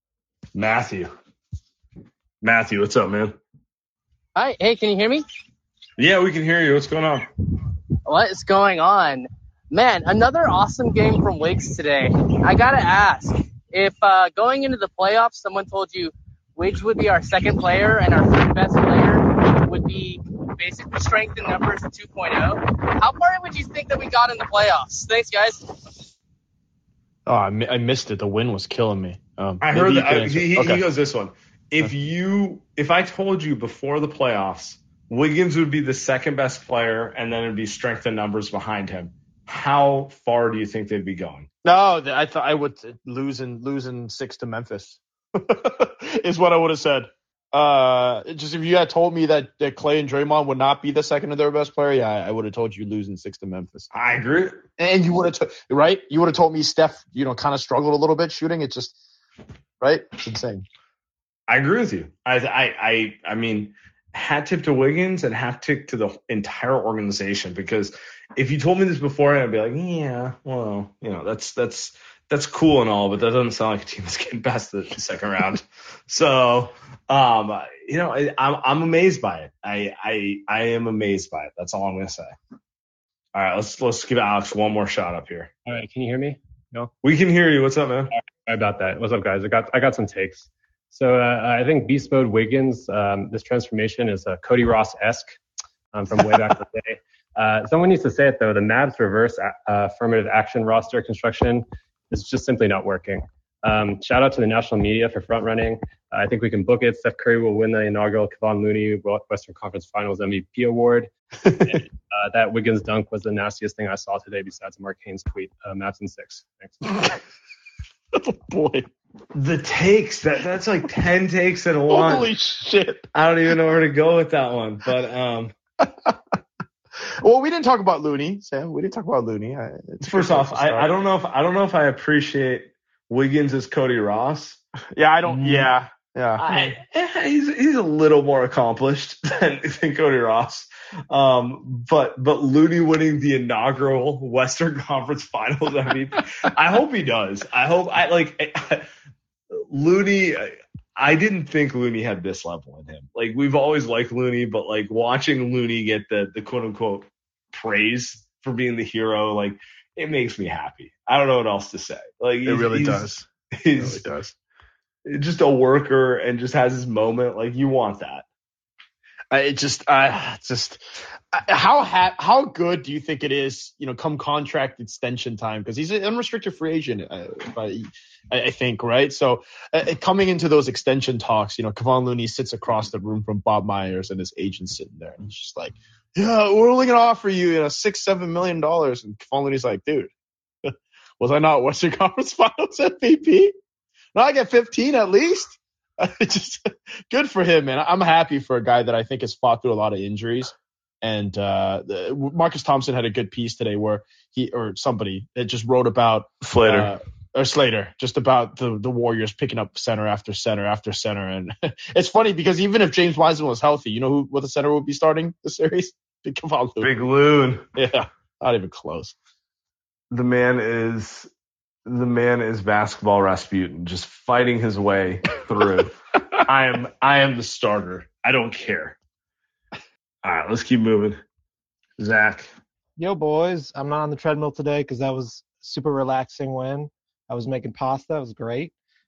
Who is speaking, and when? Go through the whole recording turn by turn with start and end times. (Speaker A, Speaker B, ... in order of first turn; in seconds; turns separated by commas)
Speaker A: 0.6-1.1, Speaker A: 2.4-3.3, Speaker B: 4.4-5.2, Speaker A: 6.0-7.3, Speaker B: 8.1-25.8, Speaker C: 27.3-30.8, Speaker A: 29.6-41.5, Speaker C: 41.6-53.9, Speaker A: 53.9-54.6, Speaker C: 54.8-59.0, Speaker C: 59.8-60.6, Speaker A: 61.5-82.3, Speaker A: 83.3-85.5, Speaker D: 85.7-86.9, Speaker A: 87.0-88.1, Speaker D: 88.4-95.4, Speaker D: 95.9-111.1, Speaker D: 111.7-116.8, Speaker C: 118.1-118.9, Speaker A: 119.3-122.3, Speaker C: 121.9-123.1, Speaker A: 123.1-125.5, Speaker C: 125.8-126.1, Speaker C: 127.2-130.9, Speaker A: 130.0-134.6, Speaker C: 134.9-136.8, Speaker A: 135.2-135.7, Speaker A: 136.4-148.9, Speaker A: 149.5-164.0, Speaker C: 162.5-163.3, Speaker C: 163.8-164.3, Speaker A: 165.1-168.2, Speaker C: 169.3-170.8, Speaker C: 171.3-190.1, Speaker C: 190.7-193.5, Speaker C: 194.1-216.9, Speaker A: 206.4-206.9, Speaker A: 216.8-217.6, Speaker C: 217.8-219.2, Speaker A: 220.1-221.3, Speaker A: 221.8-229.0, Speaker A: 230.2-231.2, Speaker A: 232.0-232.5, Speaker E: 233.0-238.7